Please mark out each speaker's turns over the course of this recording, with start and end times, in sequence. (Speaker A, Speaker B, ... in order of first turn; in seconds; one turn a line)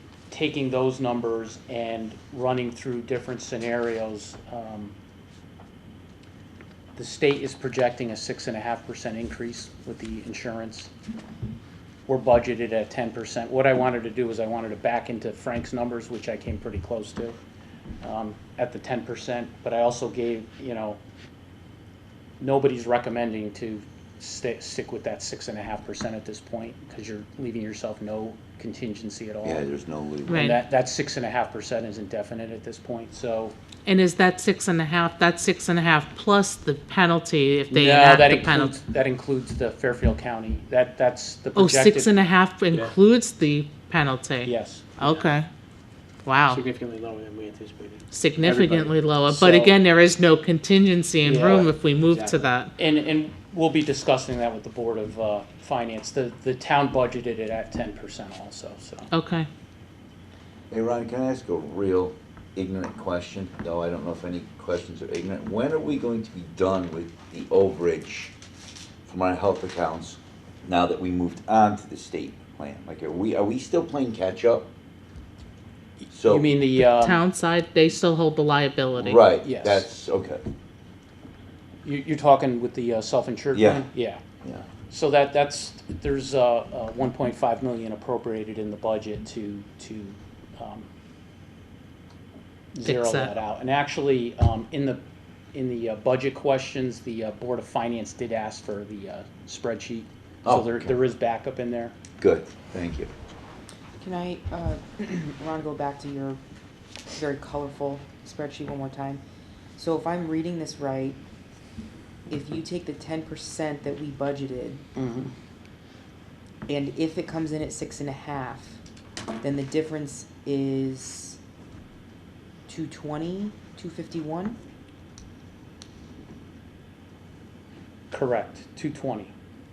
Speaker A: 0.3-4.9
Speaker A: 7.0-10.9
Speaker A: 12.1-17.4
Speaker A: 18.0-21.0
Speaker A: 22.4-29.6
Speaker B: 29.4-30.4
Speaker C: 30.3-30.6
Speaker A: 30.3-33.5
Speaker C: 33.8-38.7
Speaker A: 37.7-42.2
Speaker C: 41.5-45.5
Speaker A: 44.4-45.0
Speaker C: 46.2-46.6
Speaker D: 46.5-48.9
Speaker C: 48.1-52.7
Speaker A: 49.3-49.8
Speaker A: 51.2-51.7
Speaker D: 52.1-52.4
Speaker A: 52.8-59.1
Speaker C: 59.1-59.5
Speaker B: 60.7-68.3
Speaker B: 69.0-74.7
Speaker A: 76.0-77.2
Speaker B: 76.1-76.5
Speaker C: 76.8-79.2
Speaker B: 79.0-80.4
Speaker A: 79.4-79.9
Speaker A: 81.8-84.2
Speaker B: 83.5-83.9
Speaker A: 84.9-90.9
Speaker A: 92.7-95.0
Speaker C: 92.8-93.3
Speaker A: 95.5-101.9
Speaker B: 100.4-100.9
Speaker B: 102.2-103.1
Speaker E: 104.0-106.4
Speaker E: 107.1-109.2
Speaker E: 109.8-111.2
Speaker E: 112.3-114.8
Speaker A: 115.0-115.3
Speaker E: 116.7-118.8
Speaker E: 119.4-121.4
Speaker E: 122.7-124.6
Speaker A: 128.1-129.3